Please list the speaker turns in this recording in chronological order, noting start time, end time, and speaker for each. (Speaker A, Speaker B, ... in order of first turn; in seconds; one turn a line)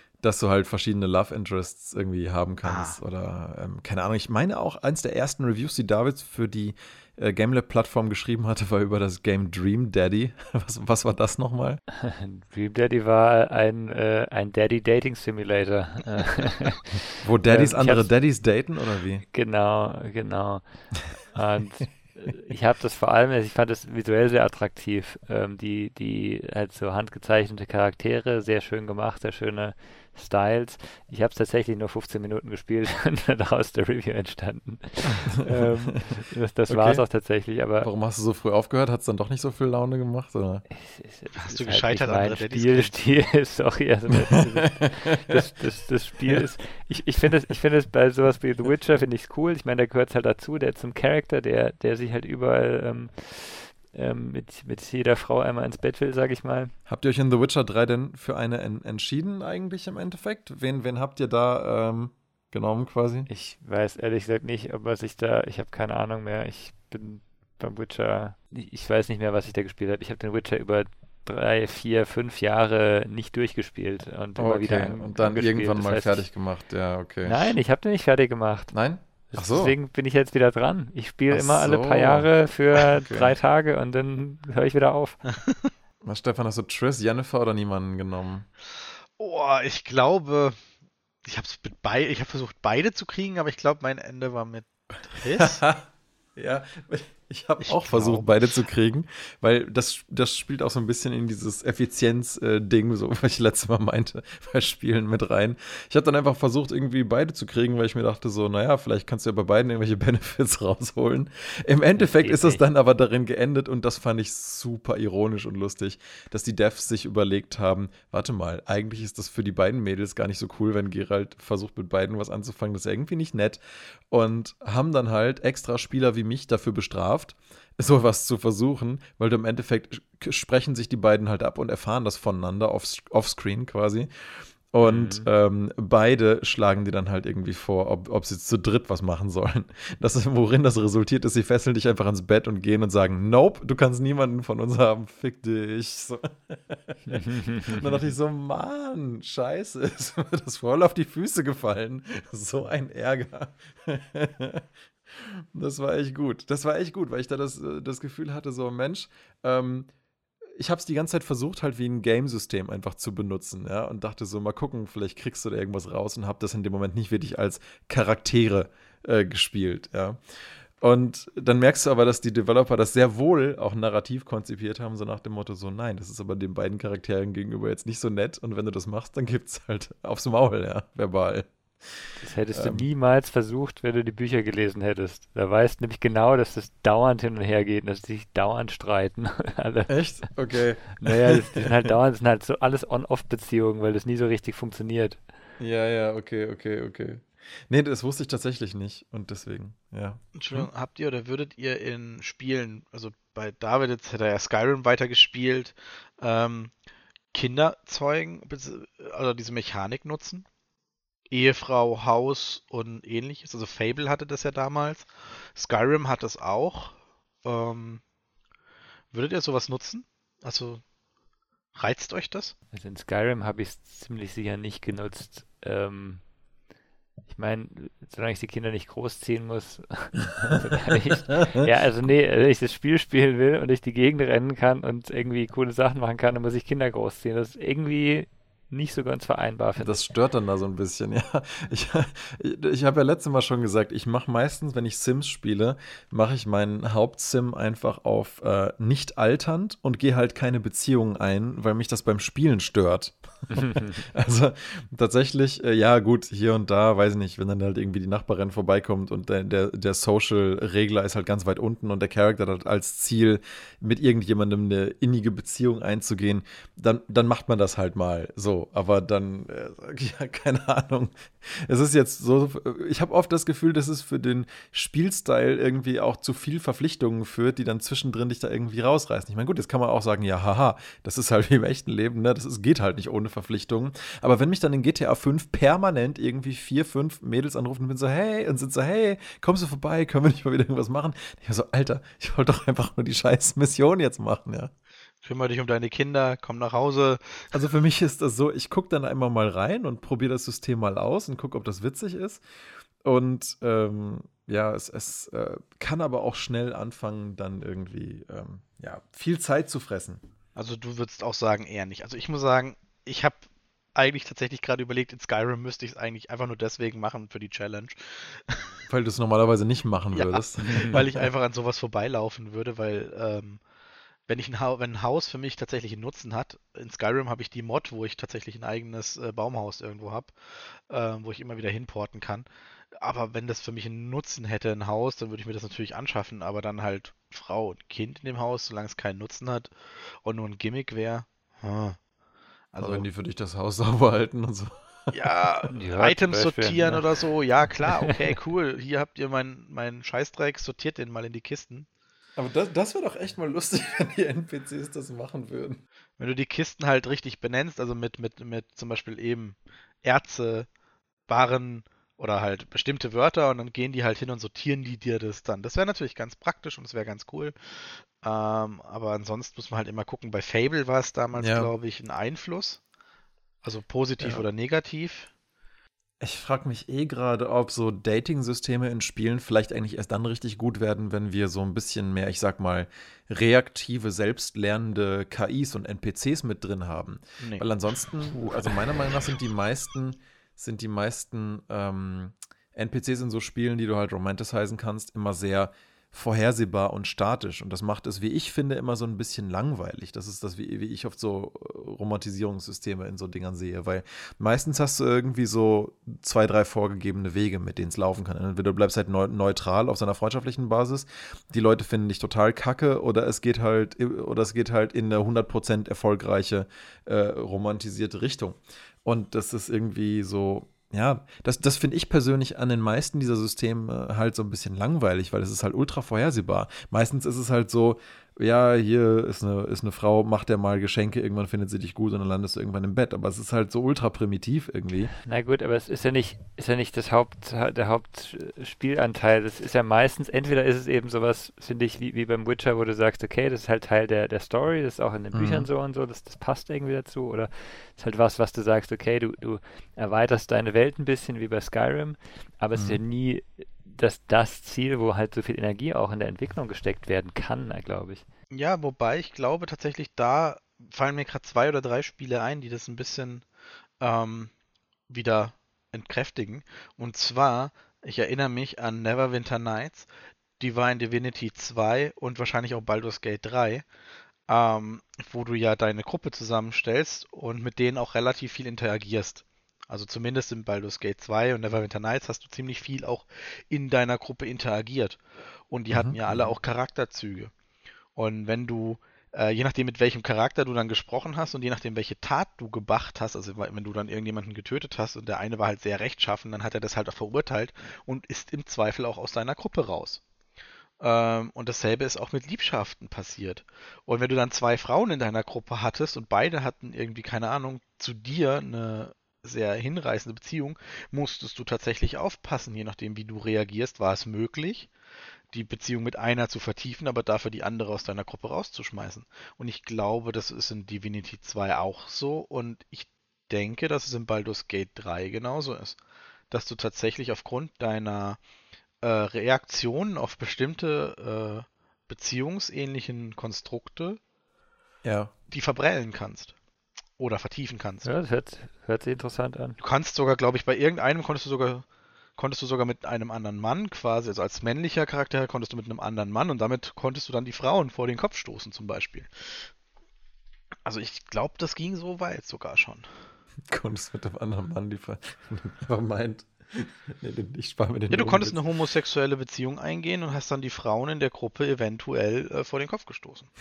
Speaker A: 0.2-11.8
Speaker B: 2.6-3.0
Speaker C: 12.0-18.1
Speaker A: 17.2-19.2
Speaker C: 19.3-37.9
Speaker A: 35.4-36.0
Speaker A: 36.7-37.0
Speaker A: 37.8-40.6
Speaker C: 40.7-56.7
Speaker B: 41.3-43.0
Speaker A: 44.8-45.4
Speaker A: 56.9-63.3
Speaker C: 63.3-76.3
Speaker A: 74.4-77.5
Speaker C: 77.2-78.7
Speaker A: 78.7-79.7
Speaker C: 79.3-85.2
Speaker A: 81.3-83.3
Speaker A: 86.0-88.5
Speaker B: 89.2-90.6
Speaker B: 91.2-95.6
Speaker A: 95.2-159.9
Speaker B: 97.6-98.5
Speaker C: 112.0-112.6
Speaker C: 134.8-135.3
Speaker C: 147.1-148.0
Speaker A: 160.6-170.2
Speaker A: 170.8-182.8
Speaker C: 182.2-195.2
Speaker A: 189.9-191.9
Speaker A: 195.6-200.7
Speaker B: 200.3-206.7
Speaker B: 207.3-210.4
Speaker B: 211.3-218.0
Speaker B: 219.1-220.8
Speaker B: 221.7-222.5
Speaker C: 222.7-226.2
Speaker C: 227.3-240.0
Speaker A: 239.8-294.7
Speaker C: 253.5-254.0
Speaker B: 295.2-297.5
Speaker A: 297.5-302.4
Speaker A: 303.0-310.2
Speaker B: 310.6-313.4
Speaker B: 313.9-318.8
Speaker A: 318.9-321.3
Speaker B: 320.1-323.6
Speaker B: 324.3-342.0
Speaker B: 342.7-343.1
Speaker A: 342.8-345.2
Speaker B: 345.1-351.9
Speaker C: 345.7-347.0
Speaker C: 347.9-348.1
Speaker A: 352.4-355.8
Speaker B: 356.2-360.7
Speaker B: 361.3-372.8
Speaker A: 371.3-371.7
Speaker B: 373.6-375.3
Speaker A: 374.2-374.4
Speaker A: 376.2-435.1
Speaker B: 387.4-387.7
Speaker C: 435.2-458.2
Speaker A: 445.3-445.7
Speaker A: 452.7-453.0
Speaker B: 458.5-463.4
Speaker B: 464.0-464.5
Speaker B: 465.1-470.1
Speaker B: 470.6-473.8
Speaker B: 474.5-487.5
Speaker A: 485.9-486.5
Speaker B: 488.1-500.2
Speaker B: 501.0-514.9
Speaker B: 515.5-526.0
Speaker B: 526.5-528.4
Speaker B: 529.0-534.2
Speaker A: 535.0-535.3
Speaker B: 535.5-536.5
Speaker B: 537.2-538.1
Speaker C: 538.0-539.8
Speaker B: 539.8-541.8
Speaker B: 542.4-549.7
Speaker B: 550.8-553.0
Speaker A: 553.7-558.6
Speaker B: 558.1-563.5